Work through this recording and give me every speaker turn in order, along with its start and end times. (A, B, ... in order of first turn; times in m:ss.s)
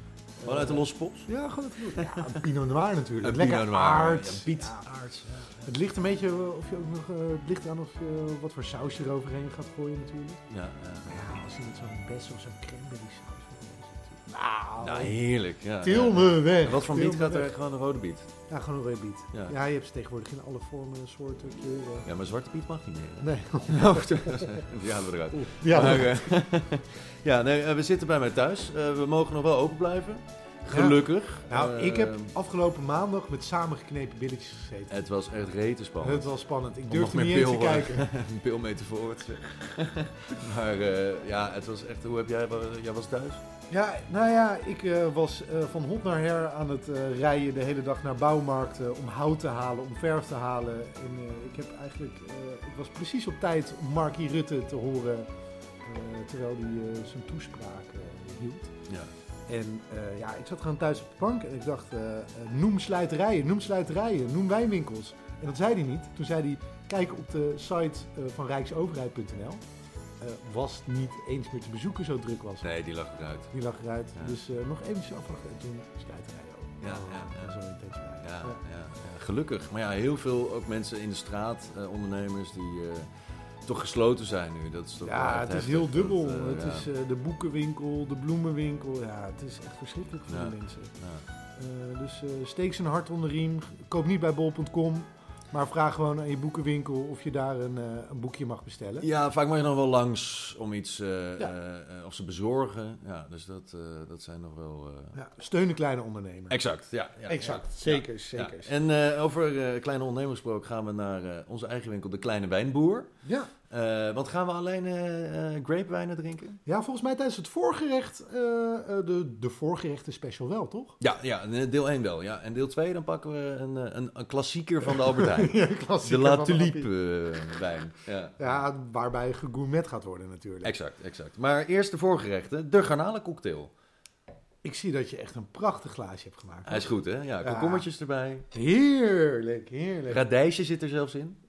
0:00.4-0:04.8 A
0:00.4-0:01.3 B
0:02.0-0:02.4 B
0:03.2-0:05.7 B
0:05.6-0:10.4 A
0:10.5-0:11.2 B
0:11.1-0:15.2 A
0:14.8-0:18.3 B
0:15.8-0:17.5 A
0:18.5-0:22.1 A
0:22.1-0:32.3 B
0:23.2-0:24.6 A
0:25.3-0:26.2 A
0:30.7-0:35.0 A
0:34.9-0:36.3 B
0:36.0-0:38.1 A
0:36.9-0:43.4 B
0:43.7-0:55.3 A
0:55.8-0:58.7 A
0:59.5-1:09.6 A
1:10.2-1:12.7 A
1:12.6-1:13.5 B
1:13.5-1:18.6 A
1:16.8-1:17.6 B
1:18.2-1:23.1 B
1:23.6-1:26.9 B
1:25.0-1:30.9 A
1:30.3-1:31.3 B
1:31.6-1:39.1 A
1:39.0-1:45.2 B
1:45.1-1:46.6 A
1:46.5-1:53.1 B
1:47.3-1:48.7 A
1:53.2-1:53.5 A
1:53.7-1:56.6 B
1:56.7-2:01.0 A
2:01.0-2:08.6 B
2:04.9-2:06.9 A
2:08.4-2:10.8 A
2:10.6-2:13.7 B
2:14.6-2:17.9 A
2:16.7-2:18.5 B
2:18.5-2:20.2 A
2:20.1-2:21.4 B